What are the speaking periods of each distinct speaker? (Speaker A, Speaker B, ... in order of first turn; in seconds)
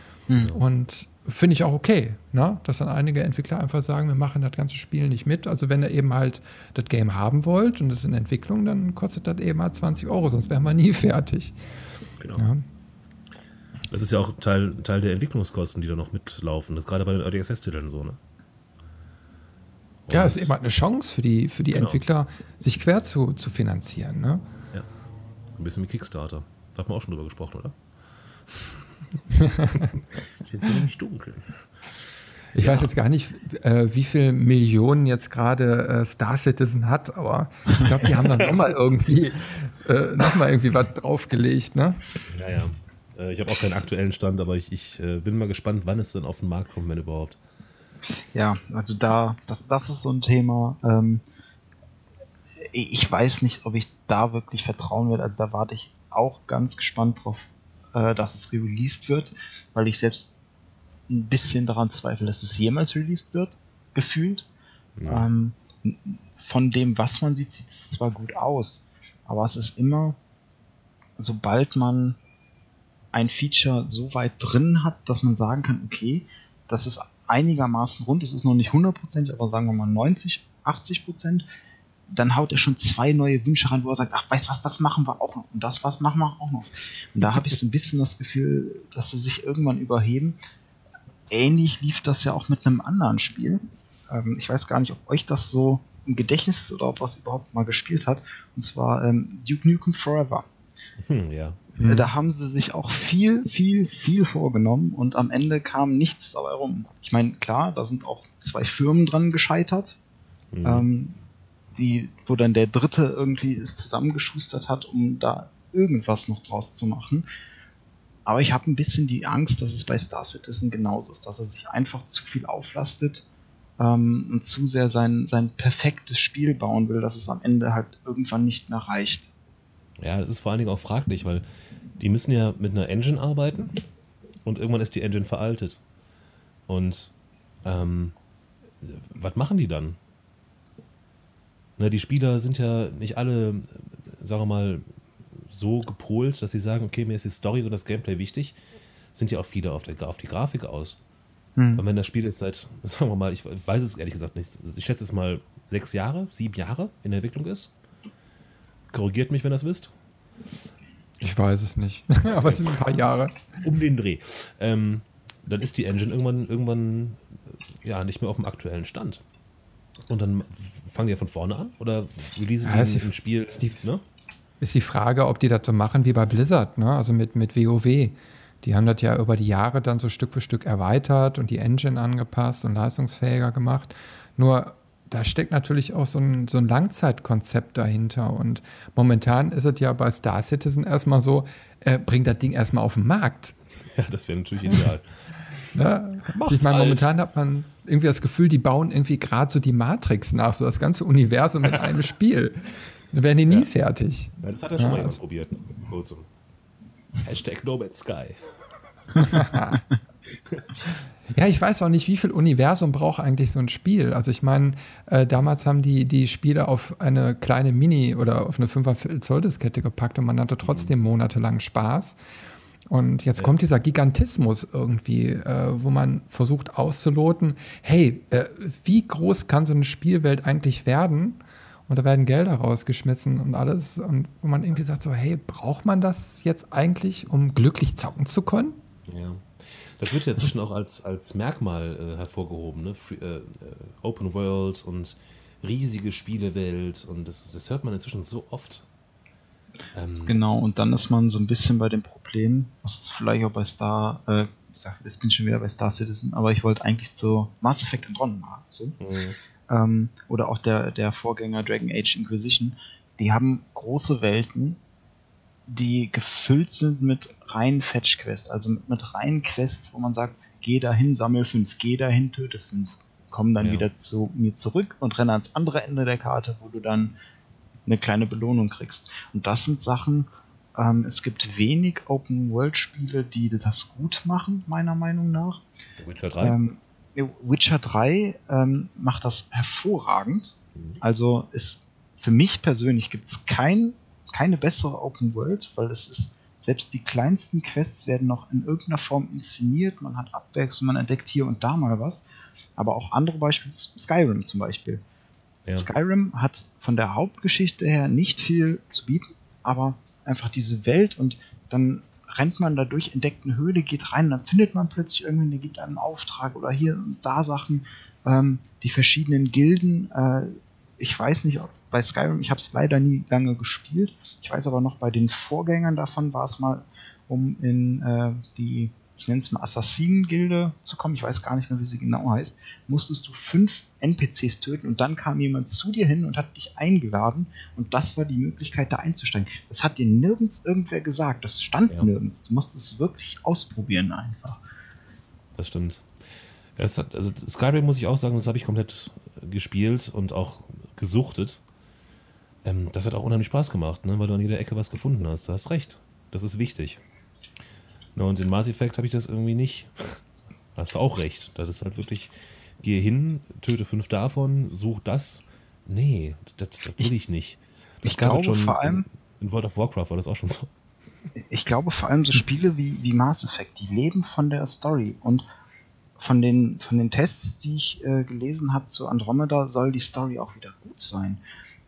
Speaker A: 0.3-0.6, 48.3-51.2, 52.7-60.3, 61.1-64.5, 65.1-70.2, 71.2-72.2, 73.1-81.5, 82.1-90.4, 91.3-100.5, 101.8-110.0, 110.6-111.2, 111.8-117.2, 118.3-123.2, 123.8-129.3, 151.6-151.8, 250.3-259.0, 259.7-264.8, 265.7-277.1, 277.9-285.6, 286.4-302.2, 302.8-305.0, 305.8-344.6, 368.0-369.1, 371.5-375.4, 376.2-381.4
Speaker B: 0.5-11.6, 12.4-12.6, 20.1-24.4, 29.4-29.8, 32.5-42.0, 101.8-102.1, 161.2-163.4, 172.6-173.8, 174.6-193.6, 195.7-205.2, 209.2-209.8, 211.3-222.2, 222.9-238.8
Speaker C: 12.2-12.5, 13.9-18.2, 20.1-20.6, 21.7-22.0, 25.6-27.8, 28.5-28.8, 30.4-31.6, 32.5-32.9, 38.1-38.6, 42.3-47.4, 65.0-65.3, 101.0-101.6, 110.5-110.9, 130.0-131.4, 132.0-133.8, 134.4-135.8, 136.7-137.1, 137.7-138.1, 138.8-140.0, 141.8-144.8, 145.5-148.5, 149.2-151.0, 151.8-157.7, 158.9-159.9, 162.3-162.7, 163.6-167.2, 167.8-169.2, 170.1-174.0, 193.9-195.0, 196.3-197.1, 204.4-206.3, 207.2-208.4, 209.2-209.6, 220.6-220.9, 239.1-248.8, 249.9-250.4, 259.0-259.4, 273.6-273.9, 286.0-286.6, 345.6-346.1, 346.8-351.6, 352.6-357.0, 358.1-360.2, 360.8-370.7